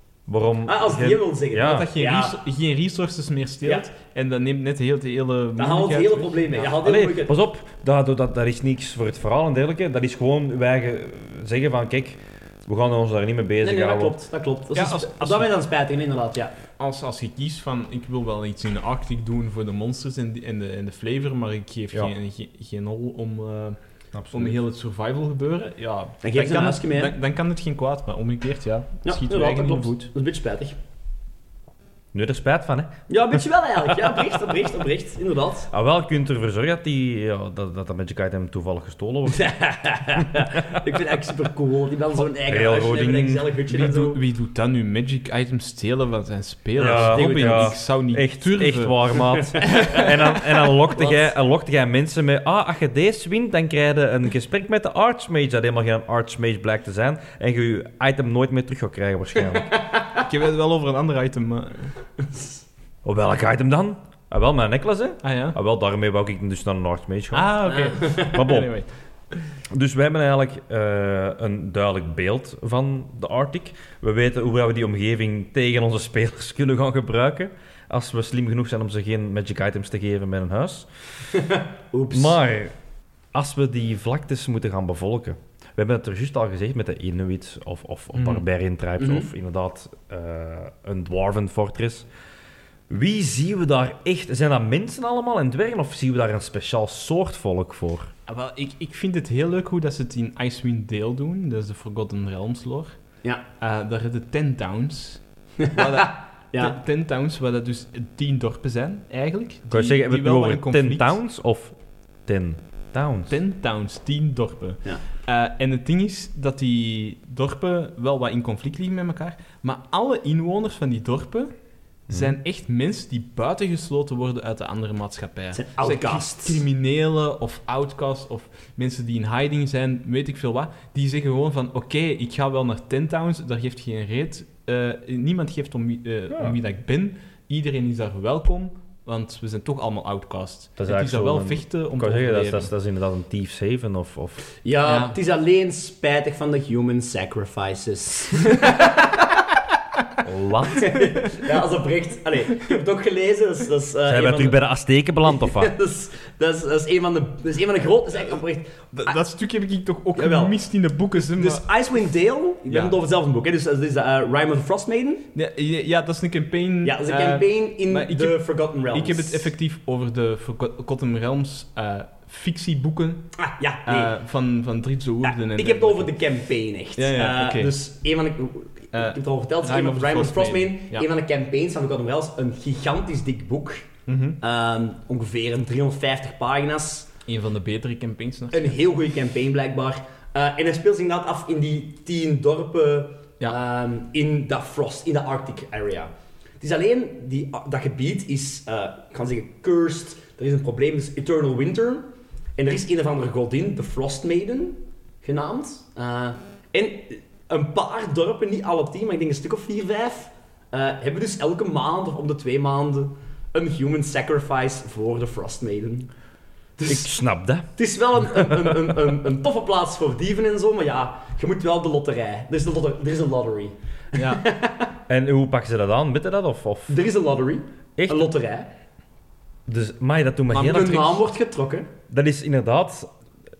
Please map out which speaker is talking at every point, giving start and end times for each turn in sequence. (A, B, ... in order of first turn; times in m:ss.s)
0:00.3-0:01.9 A
0:00.6-0:02.4 B
0:01.6-0:06.8 C
0:05.6-0:07.4 B
0:06.8-0:14.2 A
0:13.6-0:16.5 B
0:14.7-0:15.5 C
0:16.8-0:23.8 C
0:24.1-0:24.6 A
0:24.3-0:30.1 C
0:26.2-0:27.1 B
0:29.0-0:30.7 B
0:32.1-0:33.0 A
0:33.1-0:35.7 B
0:35.7-0:39.5 A
0:39.3-0:44.2 B
0:40.2-0:40.8 A
0:42.5-0:43.5 A
0:43.7-0:50.6 C
0:46.8-0:59.7 A
0:46.8-0:47.8 B
0:49.4-0:50.1 B
0:50.9-0:51.3 B
0:59.5-1:00.2 B
1:00.2-1:01.9 C
1:03.0-1:08.7 A
1:05.2-1:05.6 C
1:07.3-1:08.9 C
1:07.7-1:08.3 B
1:09.7-1:20.9 A
1:21.3-1:22.4 B
1:22.1-1:22.7 A
1:23.3-1:32.1 A
1:28.1-1:28.4 C
1:29.0-1:29.3 B
1:32.9-1:38.1 A
1:38.3-1:43.0 C
1:43.6-1:51.1 C
1:45.6-1:46.8 B
1:49.7-1:51.7 A
1:52.2-1:53.3 A
1:53.3-2:01.5 C
2:02.1-2:22.7 C
2:05.5-2:06.6 B
2:16.3-2:16.6 A
2:20.8-2:24.4 A
2:24.6-2:29.3 B
2:24.8-2:25.2 C
2:30.2-2:30.9 A
2:30.7-2:34.6 B
2:34.1-2:35.7 A
2:35.2-2:39.2 B
2:38.9-2:41.7 C
2:40.1-2:40.6 B
2:41.4-2:45.2 B
2:42.7-2:43.0 C
2:45.3-2:53.3 C
2:46.8-2:49.5 B
2:53.4-2:54.1 B
2:53.8-2:56.1 C
2:55.2-3:03.9 B
2:57.0-2:57.7 C
2:58.9-3:01.0 C
3:04.1-3:04.4 C
3:04.4-3:07.1 B
3:07.3-3:08.8 C
3:08.5-3:36.1 B
3:36.8-3:37.1 B
3:36.9-3:37.7 A
3:37.7-3:44.9 B
3:38.3-3:38.7 A
3:44.1-3:44.4 C
3:45.1-3:47.0 A
3:46.9-3:48.7 B
3:48.0-3:48.3 A
3:49.7-3:51.2 A
3:50.5-3:51.9 B
3:50.7-3:51.0 C
3:52.1-3:53.1 A